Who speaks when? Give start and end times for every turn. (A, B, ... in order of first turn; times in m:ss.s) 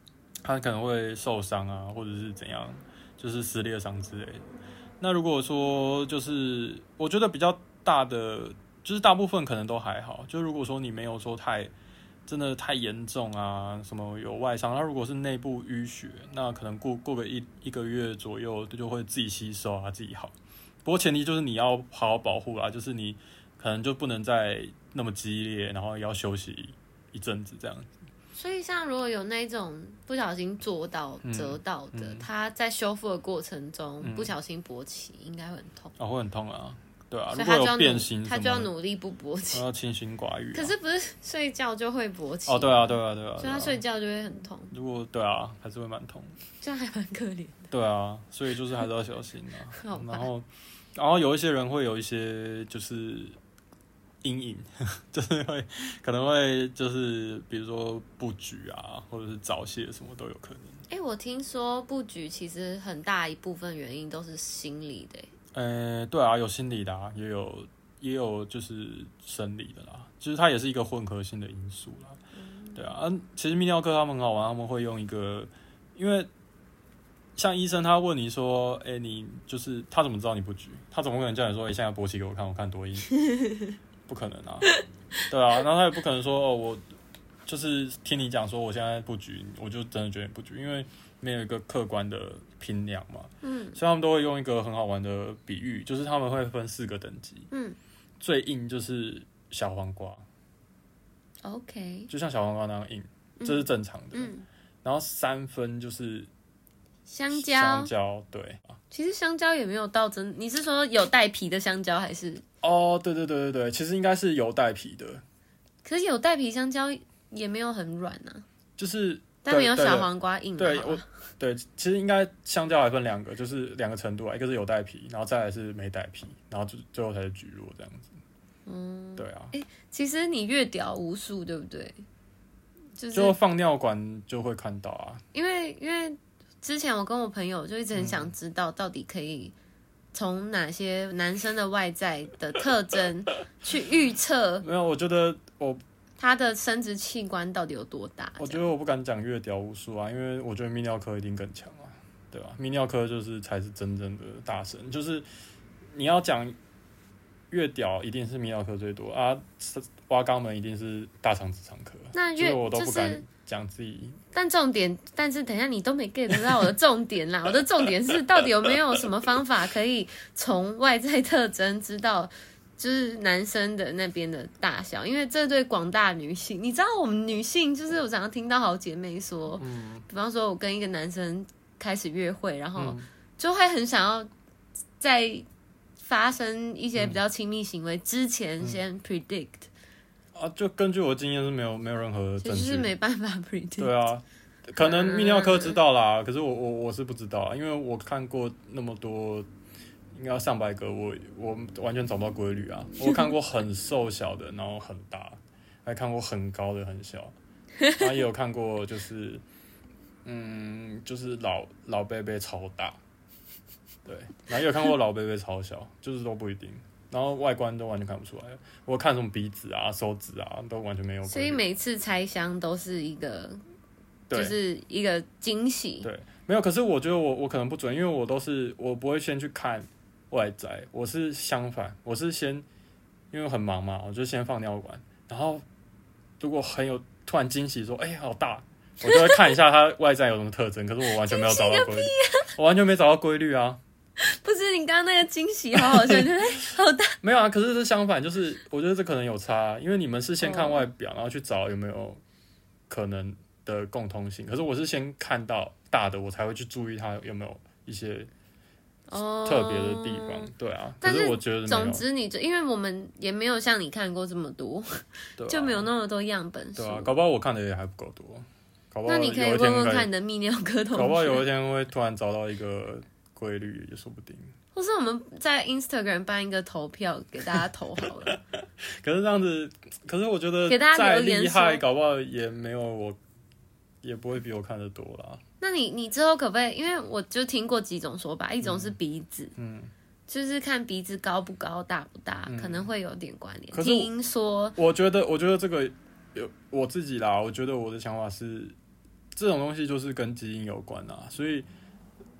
0:00.4-0:04.4 A
0:05.0-0:11.7 A
0:12.3-0:27.9 A
0:28.3-0:35.9 B
0:31.2-0:32.2 A
0:34.0-0:34.3 A
0:36.0-0:38.7 A
0:37.3-0:39.6 B
0:39.5-0:40.7 A
0:40.5-0:44.7 B
0:42.4-0:43.8 A
0:44.7-0:46.4 A
0:46.6-0:47.7 B
0:47.7-0:53.4 A
0:49.8-0:50.3 B
0:54.2-1:00.8 A
1:00.9-1:05.3 B
1:05.5-1:12.2 A
1:12.4-1:13.0 B
1:12.7-1:16.3 A
1:17.4-1:23.1 A
1:23.2-1:23.7 B
1:24.1-1:24.7 A
1:25.3-1:26.8 A
1:27.4-1:37.5 A
1:33.4-1:33.8 B
1:37.5-1:37.8 B
1:38.2-1:40.2 A
1:41.4-1:42.1 B
1:42.1-1:44.3 A
1:43.4-1:44.4 B
1:44.8-1:46.3 A
1:47.1-1:47.9 B
1:47.3-1:48.8 A
1:48.9-1:52.4 B
1:52.6-1:55.2 A
1:55.8-1:58.4 B
1:58.8-2:08.2 A
1:59.4-2:01.0 B
2:08.6-2:12.0 B
2:09.2-2:09.5 A
2:13.0-2:13.4 B
2:13.1-2:15.2 A
2:15.3-2:19.5 B
2:17.9-2:18.3 A
2:20.1-2:24.6 B
2:24.6-2:25.8 A
2:26.2-2:28.6 B
2:28.4-2:35.2 A
2:35.9-2:36.6 A
2:37.5-2:44.2 A
2:42.1-2:43.2 B
2:44.3-3:04.3 B
2:59.6-3:00.0 A
3:02.8-3:03.0 A
3:05.0-3:05.4 B
3:06.0-3:09.7 B
3:10.3-3:12.9 A
3:12.4-3:13.9 B
3:13.8-3:19.5 A
3:14.8-3:15.8 B
3:20.1-3:27.3 A
3:23.0-3:23.3 B
3:28.0-3:29.4 A
3:30.2-3:33.0 A
3:34.0-3:41.6 A
3:41.2-3:43.6 B
3:44.3-3:44.6 A
3:44.3-3:46.1 B
3:46.0-3:52.6 A
3:53.3-3:55.6 A
3:56.4-4:03.8 A
3:59.0-3:59.4 B
4:01.1-4:02.5 B
4:04.2-4:07.2 B
4:05.7-4:06.2 A
4:07.2-4:12.2 A
4:10.4-4:10.9 B
4:12.9-4:18.3 A
4:19.1-4:27.1 B
4:19.4-4:22.0 A
4:25.4-4:25.9 A
4:26.8-4:30.1 A
4:29.0-4:31.4 B
4:30.9-4:34.5 A
4:34.7-4:38.4 B
4:38.2-4:43.2 A
4:40.7-4:41.8 B
4:44.0-4:45.4 A
4:45.6-4:49.5 B
4:48.6-4:49.0 A
4:49.6-4:49.9 A
4:50.3-4:54.8 B
4:52.5-4:52.9 A
4:53.7-4:54.1 A
4:54.8-4:58.7 A
4:59.3-5:01.7 A